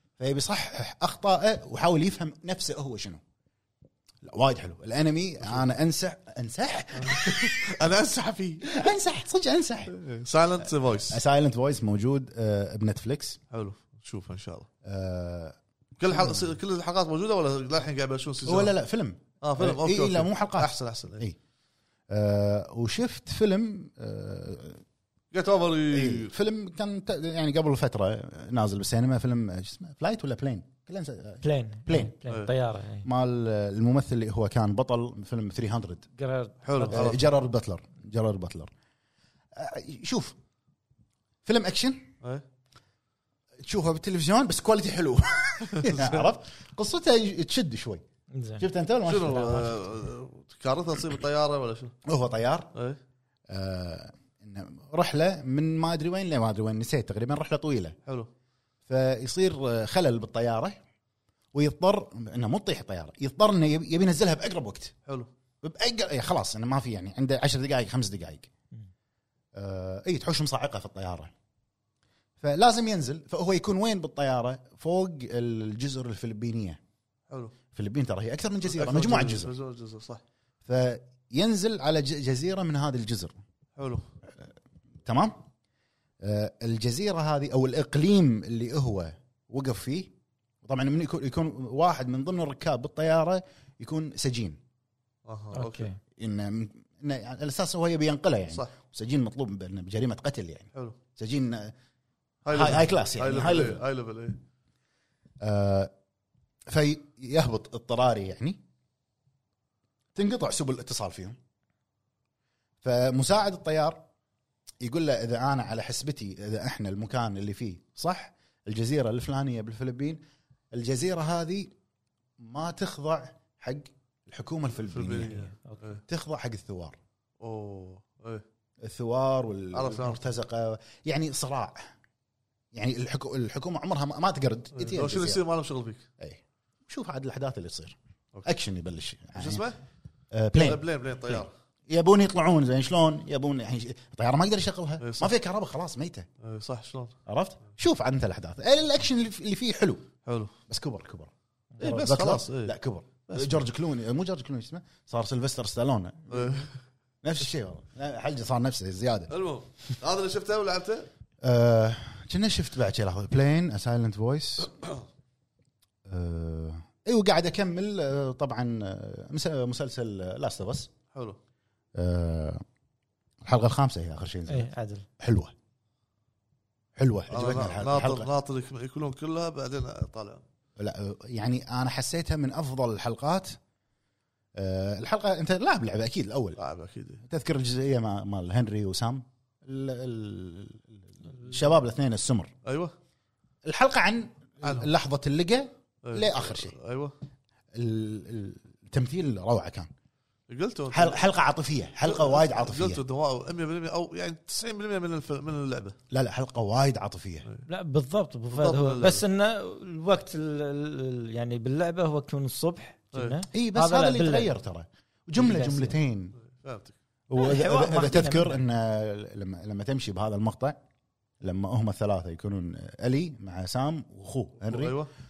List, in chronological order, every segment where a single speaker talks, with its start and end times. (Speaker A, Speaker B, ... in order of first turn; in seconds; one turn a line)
Speaker A: 0.2-3.2
Speaker A: 4.2-7.8
Speaker B: 6.9-8.9
Speaker A: 8.6-9.9
Speaker B: 9.9-11.2
Speaker A: 11.1-13.4
Speaker B: 13.5-14.7
Speaker A: 14.8-15.6
Speaker B: 16.0-18.7
Speaker A: 16.1-16.5
Speaker A: 18.4-21.4
Speaker B: 19.4-21.3
Speaker A: 22.1-24.8
Speaker B: 25.3-26.3
Speaker A: 25.9-32.1
Speaker C: 31.4-33.0
Speaker B: 32.3-32.5
Speaker A: 33.0-36.0
Speaker C: 36.2-37.1
Speaker B: 36.6-37.2
Speaker A: 36.9-38.7
Speaker A: 39.5-40.4
Speaker A: 41.4-42.1
Speaker A: 43.6-48.0
Speaker B: 45.6-46.3
Speaker C: 48.3-48.6
Speaker A: 48.6-49.8
Speaker B: 49.0-51.9
Speaker A: 52.0-52.7
Speaker B: 52.7-53.0
Speaker A: 53.5-58.0
Speaker A: 58.9-60.8
Speaker A: 61.5-64.9
Speaker A: 65.6-68.5
Speaker A: 69.5-71.3
Speaker A: 72.4-76.8
Speaker A: 77.7-79.5
Speaker B: 78.7-80.2
Speaker A: 80.6-83.3
Speaker B: 83.8-84.0
Speaker A: 85.0-85.4
Speaker A: 86.2-90.1
Speaker A: 90.6-94.6
Speaker B: 95.3-95.9
Speaker C: 95.5-96.0
Speaker A: 96.2-101.7
Speaker B: 102.4-104.4
Speaker A: 102.5-103.8
Speaker A: 105.4-105.9
Speaker A: 106.7-108.6
Speaker A: 110.1-111.4
Speaker A: 112.8-114.0
Speaker A: 114.8-120.2
Speaker A: 120.7-121.7
Speaker A: 122.4-125.5
Speaker B: 124.8-126.0
Speaker C: 125.3-125.8
Speaker A: 126.1-127.0
Speaker B: 127.4-128.4
Speaker A: 128.8-131.9
Speaker B: 129.7-130.2
Speaker A: 132.7-135.4
Speaker B: 134.7-136.1
Speaker A: 136.2-139.6
Speaker B: 139.3-139.8
Speaker A: 140.3-146.3
Speaker B: 140.5-141.5
Speaker B: 145.0-145.3
Speaker B: 146.4-147.1
Speaker A: 147.3-150.1
Speaker B: 150.2-150.5
Speaker A: 150.7-156.6
Speaker B: 151.8-152.7
Speaker B: 153.3-153.6
Speaker B: 156.3-156.8
Speaker A: 157.2-159.3
Speaker B: 159.3-161.1
Speaker A: 161.4-164.7
Speaker A: 166.1-170.9
Speaker B: 171.1-171.4
Speaker A: 171.9-172.6
Speaker A: 173.4-175.5
Speaker C: 174.5-175.1
Speaker A: 177.0-178.3
Speaker B: 177.3-180.4
Speaker A: 180.8-183.6
Speaker A: 184.6-186.6
Speaker B: 186.6-187.2
Speaker A: 187.2-192.5
Speaker B: 192.6-192.9
Speaker A: 193.6-196.7
Speaker B: 194.6-194.9
Speaker B: 196.0-197.1
Speaker A: 197.7-199.9
Speaker B: 200.5-201.2
Speaker A: 200.9-203.0
Speaker B: 202.0-206.0
Speaker A: 206.1-207.4
Speaker C: 207.7-214.5
Speaker B: 208.5-209.2
Speaker A: 213.5-216.3
Speaker C: 215.3-216.0
Speaker B: 216.4-216.9
Speaker A: 217.3-220.8
Speaker C: 217.3-218.6
Speaker A: 221.4-225.0
Speaker B: 224.6-225.1